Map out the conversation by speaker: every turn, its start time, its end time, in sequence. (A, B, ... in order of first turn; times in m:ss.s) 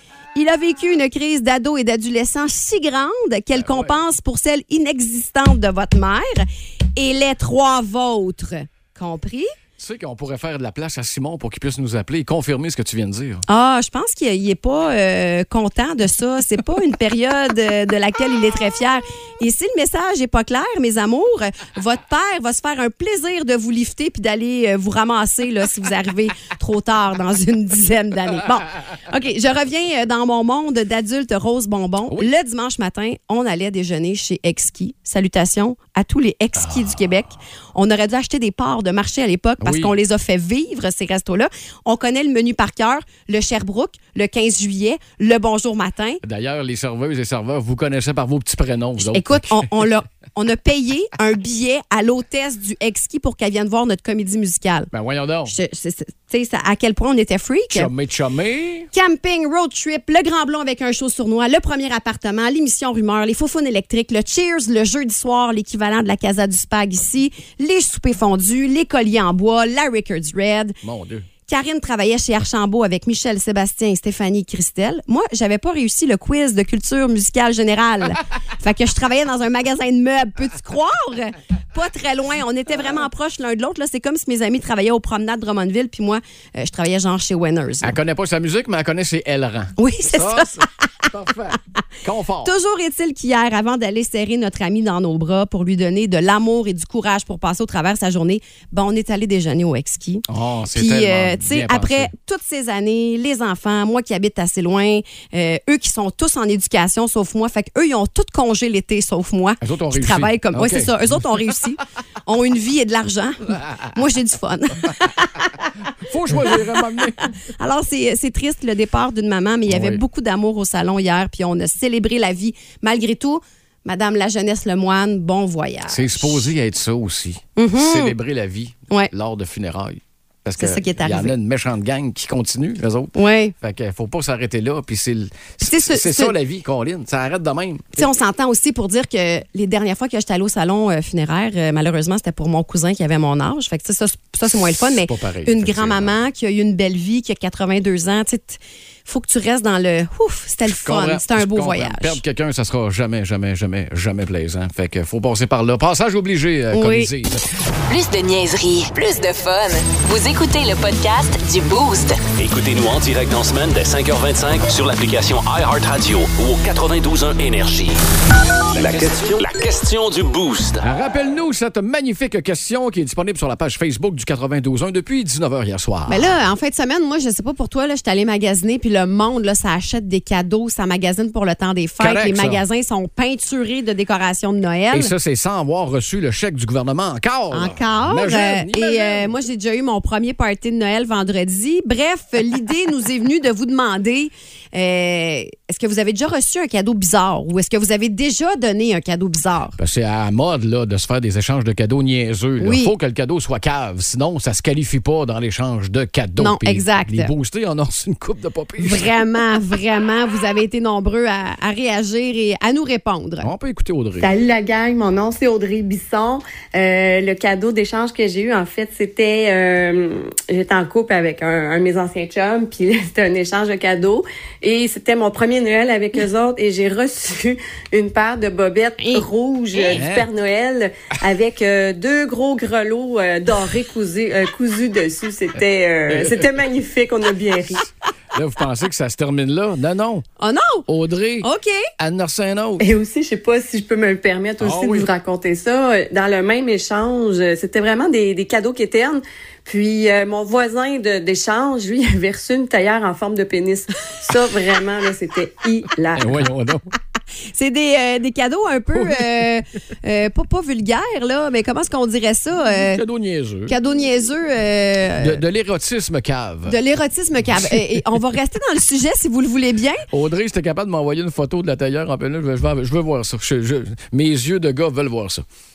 0:00.3-0:09.5 A
0:03.5-0:04.0 B
0:09.8-0:13.4 B
0:13.5-0:46.2 A
0:36.6-0:37.0 B
0:39.6-0:39.9 B
0:46.2-0:49.9 B
0:49.0-0:54.9 A
0:54.9-0:55.5 B
0:55.5-0:57.9 A
0:57.7-0:58.9 B
0:58.9-1:10.8 A
1:10.8-1:11.3 B
1:11.5-1:28.0 A
1:27.8-1:32.5 B
1:29.8-1:30.6 A
1:32.4-1:55.7 A
1:40.3-1:42.1 B
1:49.6-1:51.0 B
1:56.0-1:57.3 B
1:57.4-2:06.4 A
1:59.7-2:00.0 B
2:05.9-2:18.1 B
2:07.6-2:08.2 A
2:10.6-2:11.3 A
2:13.1-2:13.5 A
2:15.6-2:16.3 A
2:18.0-2:32.2 A
2:24.5-2:26.2 B
2:30.6-2:37.4 B
2:36.7-2:37.1 A
2:37.9-2:42.2 C
2:42.4-2:48.0 D
2:48.7-2:50.8 D
2:48.8-2:49.2 B
2:50.8-2:56.3 B
2:56.1-3:05.1 A
3:02.0-3:02.6 B
3:04.9-3:09.3 B
3:07.5-3:19.8 A
3:19.8-3:29.2 B
3:22.6-3:22.9 A
3:26.4-3:27.3 A
3:28.8-3:33.5 A
3:33.4-3:34.3 B
3:34.2-3:57.8 E
3:49.0-3:49.2 A
3:49.8-3:50.3 B
3:56.1-3:56.4 B
3:58.3-4:00.2 B
4:00.4-4:00.9 A
4:00.9-4:02.9 B
4:01.4-4:01.8 A
4:02.8-4:16.4 E
4:04.6-4:05.1 B
4:16.1-4:16.9 B
4:17.5-4:23.0 A
4:19.0-4:19.2 B
4:22.7-4:23.7 B
4:23.7-4:25.4 A
4:25.2-4:26.8 B
4:26.7-4:30.0 A
4:30.1-4:35.4 B